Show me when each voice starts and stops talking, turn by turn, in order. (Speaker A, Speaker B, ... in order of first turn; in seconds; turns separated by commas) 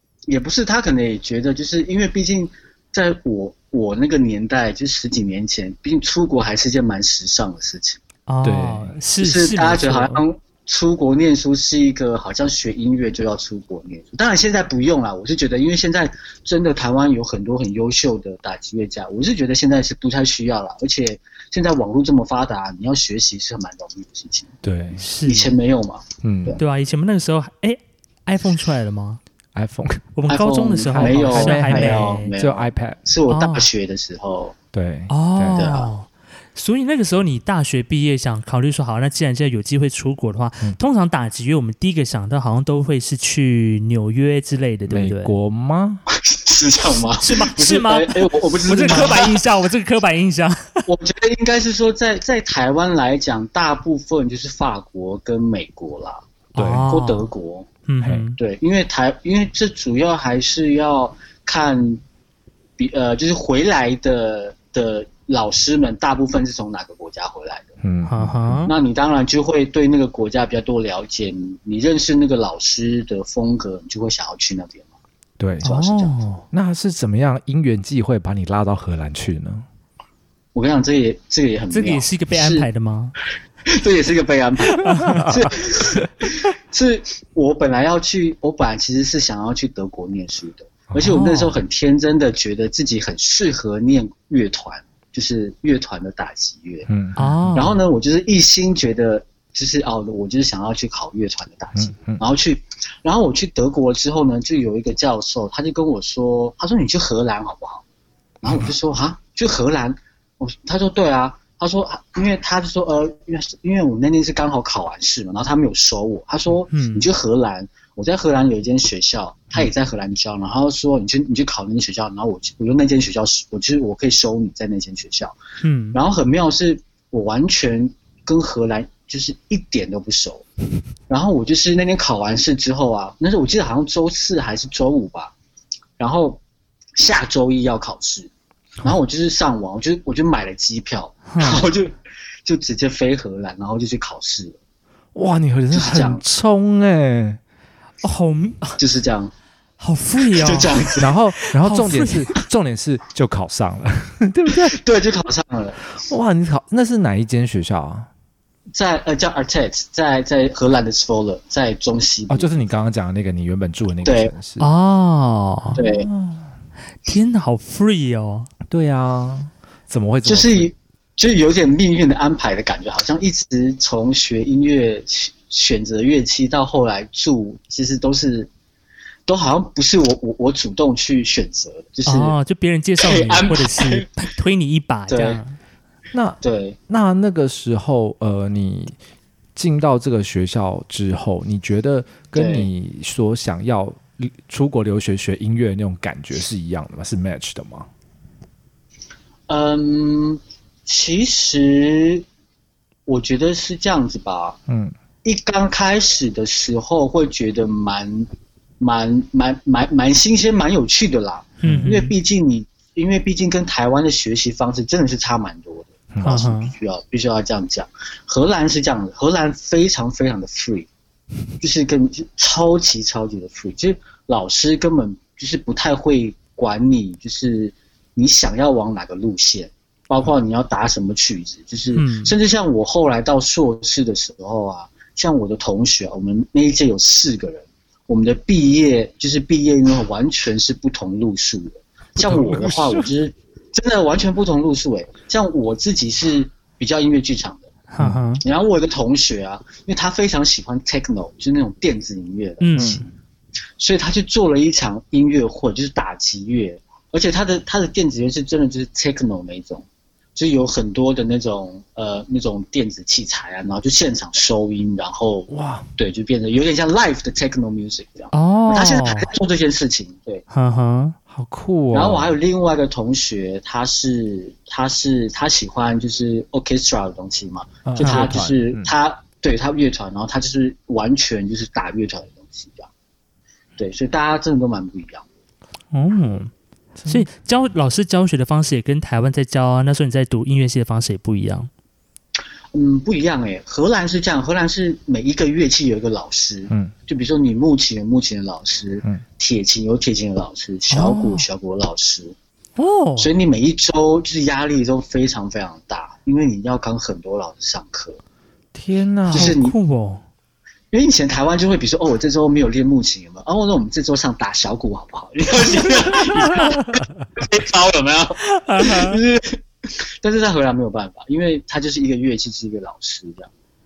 Speaker A: 0.3-8.0, Speaker B: 8.3-10.2, Speaker C: 8.4-8.9, Speaker A: 9.2-24.5, Speaker C: 24.6-25.0, Speaker B: 25.0-25.5, Speaker A: 25.2-26.6, Speaker C: 26.2-26.6, Speaker B: 26.6-29.2, Speaker C: 29.6-30.1, Speaker B: 30.1-32.3, Speaker A: 30.3-34.6, Speaker C: 31.0-33.0, Speaker B: 33.3-33.7, Speaker C: 34.7-35.7, Speaker B: 35.1-45.3, Speaker A: 35.5-35.9, Speaker C: 44.9-46.0, Speaker A: 46.1-49.4, Speaker B: 47.1-50.9, Speaker A: 50.9-56.2, Speaker B: 56.5-57.3, Speaker C: 56.6-56.9, Speaker A: 56.8-57.7, Speaker B: 57.9-58.4, Speaker C: 58.0-58.3, Speaker A: 58.4-62.0, Speaker A: 62.8-67.7, Speaker C: 67.8-68.7, Speaker B: 68.1-68.7, Speaker A: 68.7-74.9, Speaker C: 75.4-75.7, Speaker A: 75.6-76.2, Speaker B: 75.6-76.5, Speaker C: 76.5-79.7, Speaker A: 80.5-82.7, Speaker B: 81.7-83.2, Speaker A: 83.7-96.9, Speaker B: 84.8-85.3, Speaker C: 85.0-85.5, Speaker B: 91.0-91.6, Speaker C: 96.9-97.7, Speaker B: 97.2-97.8, Speaker A: 97.5-107.8, Speaker C: 101.8-102.2, Speaker A: 108.4-125.3, Speaker B: 116.7-117.1, Speaker B: 125.6-126.0, Speaker A: 125.9-130.4, Speaker A: 131.1-135.3, Speaker A: 136.0-136.4, Speaker A: 137.0-138.3, Speaker A: 138.8-144.6, Speaker B: 141.3-141.7, Speaker C: 145.2-147.4, Speaker A: 145.7-146.2, Speaker B: 148.0-148.8, Speaker A: 148.8-149.3, Speaker B: 149.8-150.8, Speaker A: 150.3-151.1, Speaker C: 151.0-154.8, Speaker B: 151.4-152.3, Speaker A: 154.7-155.9, Speaker C: 156.0-158.1, Speaker A: 158.8-162.5, Speaker C: 162.3-164.7, Speaker A: 164.1-164.3, Speaker B: 164.6-165.8, Speaker A: 165.8-166.1, Speaker C: 165.8-166.5, Speaker B: 167.1-168.5, Speaker C: 168.7-170.7, Speaker A: 170.3-178.5, Speaker A: 179.3-182.4, Speaker B: 182.1-185.6, Speaker A: 183.0-184.1, Speaker A: 185.1-185.4, Speaker C: 186.1-189.0, Speaker A: 186.4-186.8, Speaker C: 189.6-197.9, Speaker A: 192.4-192.7, Speaker A: 199.5-202.2, Speaker A: 203.1-204.6, Speaker C: 204.7-204.9, Speaker A: 205.2-208.3, Speaker A: 208.8-220.9, Speaker B: 211.6-212.1, Speaker C: 211.6-211.9, Speaker C: 216.1-216.4, Speaker B: 216.2-216.7, Speaker A: 221.6-247.7, Speaker B: 231.9-232.3, Speaker C: 242.2-243.1, Speaker B: 247.9-248.4, Speaker A: 248.4-253.0, Speaker B: 252.6-253.1, Speaker C: 252.8-253.0, Speaker A: 253.8-270.4, Speaker C: 265.5-265.9, Speaker B: 268.3-269.3, Speaker B: 270.5-271.2, Speaker C: 271.3-272.4, Speaker A: 271.9-282.9, Speaker C: 277.9-278.9, Speaker B: 278.0-278.3, Speaker A: 283.8-285.2, Speaker B: 285.9-286.5, Speaker C: 287.0-287.3, Speaker B: 287.1-291.7, Speaker A: 292.7-302.4, Speaker B: 300.9-301.5, Speaker B: 302.8-303.3, Speaker A: 303.2-308.2, Speaker C: 308.7-309.6, Speaker A: 309.3-309.8, Speaker B: 309.3-310.2, Speaker A: 310.9-316.8, Speaker A: 317.4-319.6, Speaker B: 318.5-319.2, Speaker A: 320.2-323.5